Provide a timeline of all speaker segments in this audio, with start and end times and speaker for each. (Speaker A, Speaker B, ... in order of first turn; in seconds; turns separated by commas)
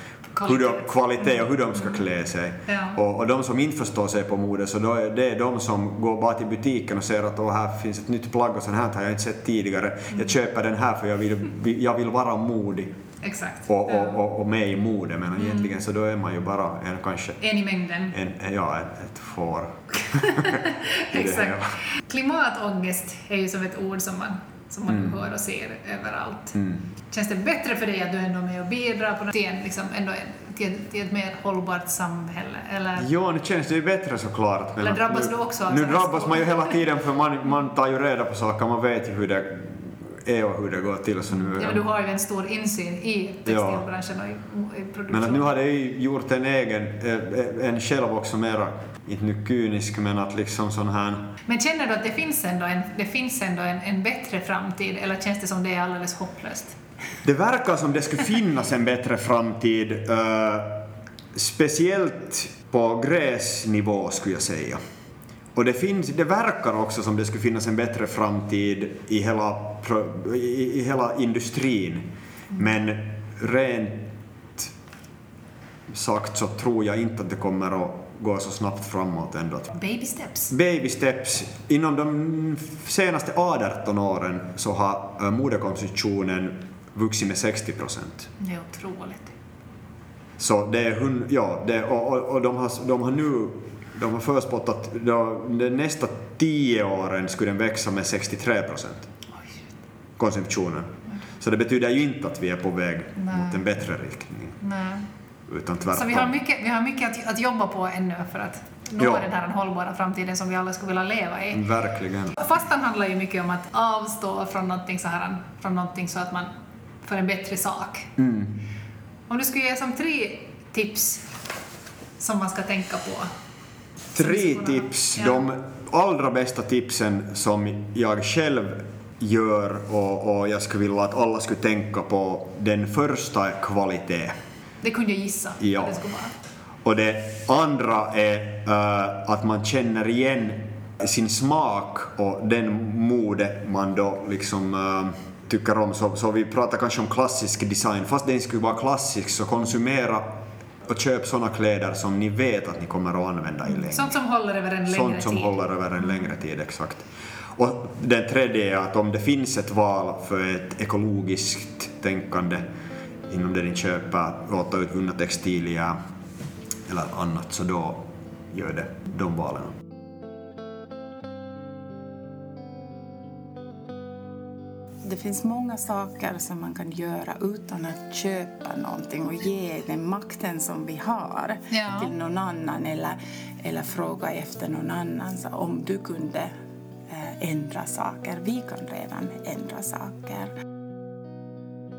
Speaker A: 0.4-1.4, Speaker B: 0.4-12.9, Speaker A: 2.7-3.0, Speaker A: 13.2-14.2, Speaker B: 13.7-17.4, Speaker A: 15.4-15.7, Speaker A: 17.4-18.1, Speaker B: 18.1-21.8, Speaker A: 20.2-26.5, Speaker B: 24.9-25.2, Speaker B: 26.5-26.9, Speaker A: 27.1-33.1, Speaker B: 33.0-41.9, Speaker A: 34.8-36.8, Speaker A: 41.5-45.5, Speaker B: 43.5-43.9, Speaker B: 45.1-51.3, Speaker A: 51.5-56.8, Speaker B: 57.2-64.8, Speaker B: 65.5-74.7, Speaker B: 75.9-79.7, Speaker A: 79.7-80.5, Speaker B: 80.5-88.3, Speaker A: 88.4-89.3, Speaker B: 90.4-99.1, Speaker B: 100.2-104.6, Speaker A: 103.2-103.6, Speaker A: 104.6-105.0, Speaker B: 105.5-106.3, Speaker A: 105.9-111.6, Speaker B: 109.0-109.3, Speaker B: 111.5-112.4, Speaker A: 112.3-116.5, Speaker A: 117.0-118.1, Speaker B: 118.2-118.6, Speaker A: 119.3-121.3, Speaker A: 122.2-123.3, Speaker B: 124.1-134.4, Speaker A: 124.2-125.4, Speaker A: 134.8-136.3, Speaker B: 135.6-136.0, Speaker B: 136.8-154.2, Speaker A: 153.7-155.6, Speaker B: 154.9-162.7, Speaker B: 163.3-166.0, Speaker B: 166.9-169.8, Speaker C: 175.0-186.5, Speaker A: 181.7-182.1, Speaker C: 187.1-190.5